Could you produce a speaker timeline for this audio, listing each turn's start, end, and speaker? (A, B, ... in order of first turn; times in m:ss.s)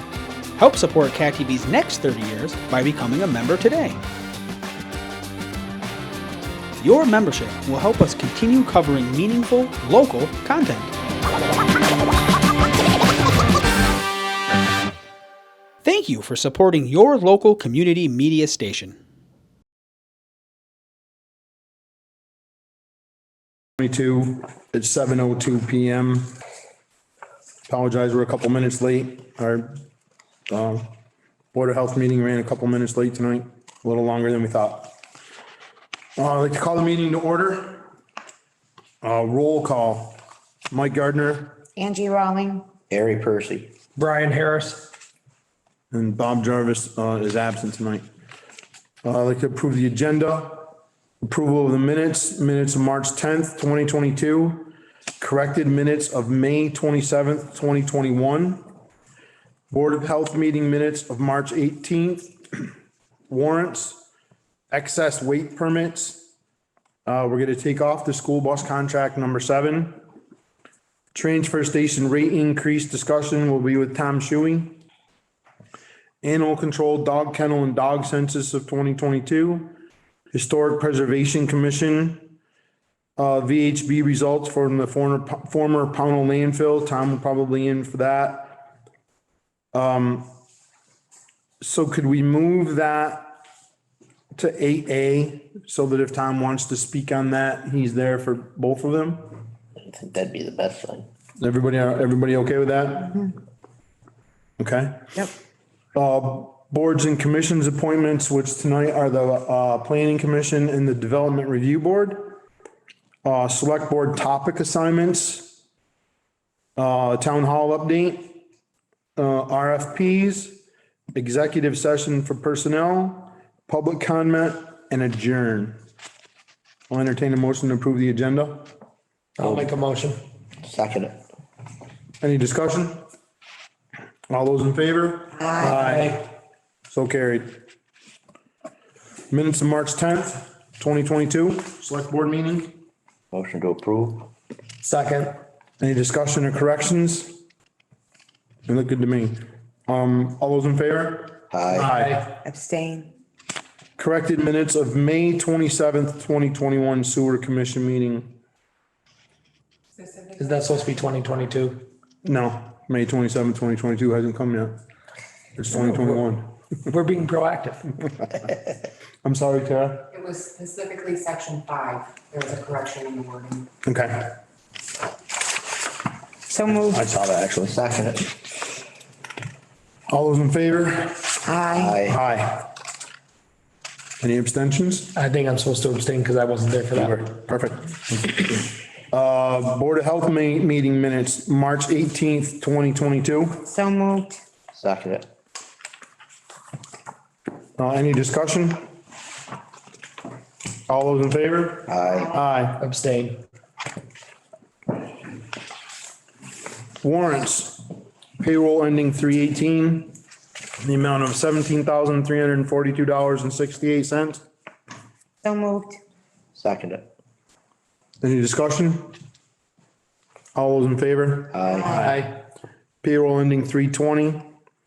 0:00.6-0:04.0 A
0:06.8-0:10.9 A
0:15.8-0:19.0 A
0:23.8-0:26.3 B
0:27.7-0:29.8 B
0:30.5-0:30.9 B
0:31.5-0:35.0 B
0:36.2-0:37.9 B
0:39.0-0:41.6 B
0:41.8-0:42.7 C
0:42.9-0:43.7 D
0:44.0-0:44.9 E
0:45.9-0:48.0 B
0:49.0-0:58.6 B
0:59.7-1:02.7 B
1:03.3-1:04.0 B
1:04.7-1:06.3 B
1:07.0-1:10.0 B
1:11.1-1:14.8 B
1:16.2-1:19.7 B
1:20.3-1:22.4 B
1:23.2-1:28.7 B
1:29.7-1:30.3 B
1:31.6-1:33.3 B
1:34.3-1:39.4 B
1:39.8-1:41.1 D
1:41.4-1:43.3 B
1:44.6-1:45.3 B
1:45.9-1:52.4 B
1:53.2-1:55.6 B
1:56.8-1:58.4 B
1:59.2-2:00.6 B
2:01.1-2:05.8 B
2:06.9-2:08.7 B
2:09.4-2:10.2 E
2:09.4-2:09.7 D
2:10.6-2:11.2 D
2:12.2-2:13.0 B
2:14.3-2:16.3 B
2:15.3-2:15.8 C
2:15.6-2:16.2 E
2:16.9-2:17.6 B
2:19.3-2:22.8 B
2:23.3-2:24.3 D
2:24.8-2:25.3 E
2:25.8-2:27.4 B
2:28.6-2:32.3 B
2:31.5-2:31.9 D
2:31.7-2:32.3 E
2:32.3-2:33.1 C
2:34.0-2:38.3 B
2:40.0-2:40.8 F
2:40.4-2:41.8 E
2:42.2-2:44.8 B
2:45.6-2:46.5 B
2:45.8-2:46.2 E
2:46.9-2:48.0 E
2:49.2-2:50.1 B
2:50.2-2:53.7 F
2:53.8-2:54.4 B
2:56.5-2:57.0 C
2:56.9-2:57.7 B
2:57.6-2:58.3 D
3:00.1-3:01.4 B
3:01.4-3:02.0 C
3:01.7-3:02.2 D
3:02.0-3:02.7 B
3:04.2-3:05.1 B
3:05.2-3:07.1 E
3:06.9-3:13.6 B
3:13.6-3:14.4 C
3:14.7-3:15.3 D
3:17.8-3:18.9 B
3:20.9-3:22.9 B
3:21.9-3:22.3 D
3:22.8-3:23.4 E
3:27.0-3:27.8 B
3:28.4-3:30.1 B
3:30.8-3:34.4 B
3:35.4-3:36.0 C
3:36.5-3:37.1 D
3:38.2-3:39.2 B
3:40.5-3:41.6 B
3:41.5-3:42.0 D
3:41.7-3:42.2 C
3:41.9-3:42.3 E
3:43.0-3:44.5 B